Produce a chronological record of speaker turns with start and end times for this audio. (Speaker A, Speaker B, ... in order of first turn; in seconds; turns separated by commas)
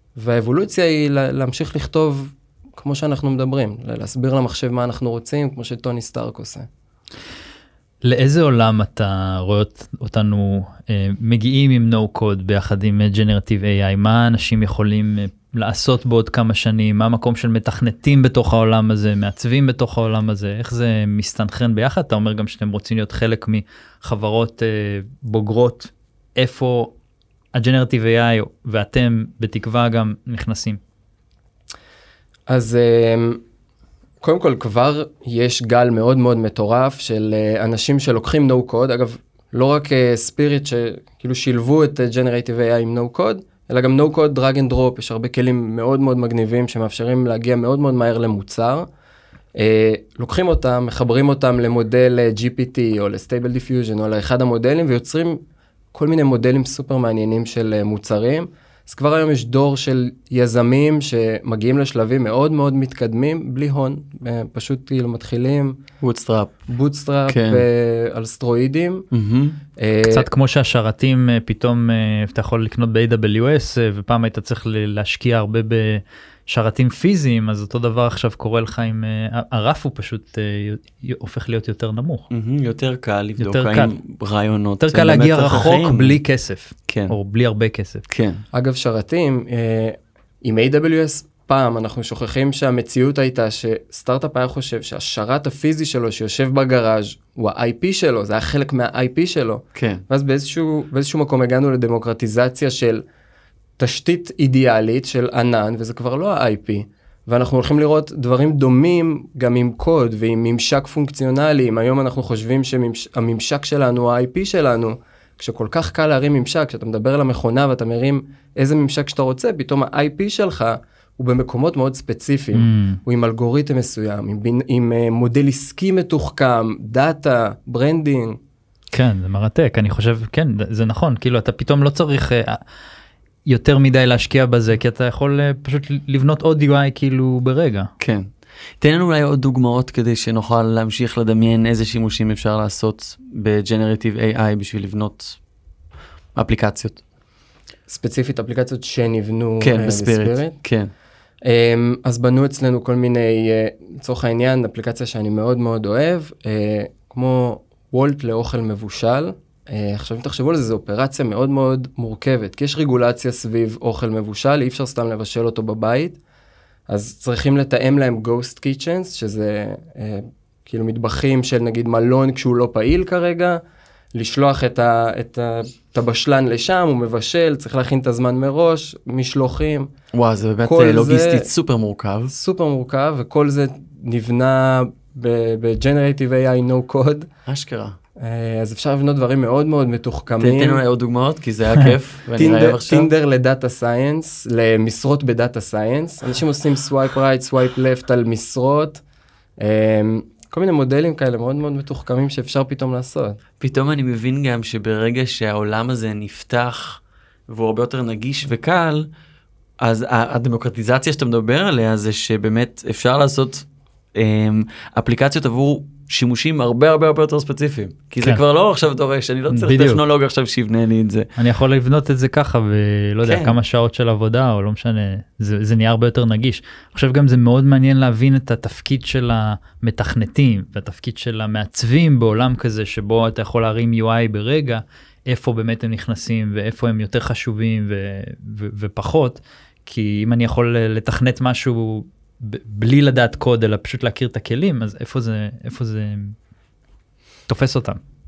Speaker A: 0.2-6.7, Speaker B: 8.0-26.9, Speaker B: 27.5-30.8, Speaker A: 32.5-33.4, Speaker A: 34.2-48.9, Speaker A: 49.5-55.4, Speaker A: 55.9-65.8, Speaker C: 66.0-66.5, Speaker A: 66.7-69.1, Speaker C: 67.3-67.6, Speaker C: 69.1-69.6, Speaker A: 69.8-70.3, Speaker B: 70.0-82.3, Speaker C: 82.3-86.2, Speaker B: 83.4-83.9, Speaker B: 84.8-88.0, Speaker C: 86.9-87.2, Speaker C: 88.1-88.4, Speaker A: 88.5-103.0, Speaker C: 99.8-100.0, Speaker A: 103.8-128.4, Speaker B: 122.5-123.0, Speaker B: 128.9-132.6, Speaker B: 133.5-137.9, Speaker C: 138.0-138.3, Speaker C: 138.8-145.4, Speaker C: 146.4-147.0, Speaker A: 147.9-150.6, Speaker C: 149.6-150.9, Speaker A: 151.4-166.2, Speaker A: 166.9-173.6, Speaker A: 174.1-179.9, Speaker C: 180.1-182.3, Speaker A: 180.6-181.5, Speaker A: 182.3-187.3, Speaker C: 187.5-188.0, Speaker A: 188.2-190.8, Speaker C: 190.4-193.1, Speaker A: 192.4-199.0, Speaker A: 199.6-203.4, Speaker C: 203.6-209.1, Speaker C: 209.8-221.3, Speaker B: 219.5-220.0, Speaker B: 221.4-246.3, Speaker C: 223.2-223.6, Speaker B: 247.5-248.0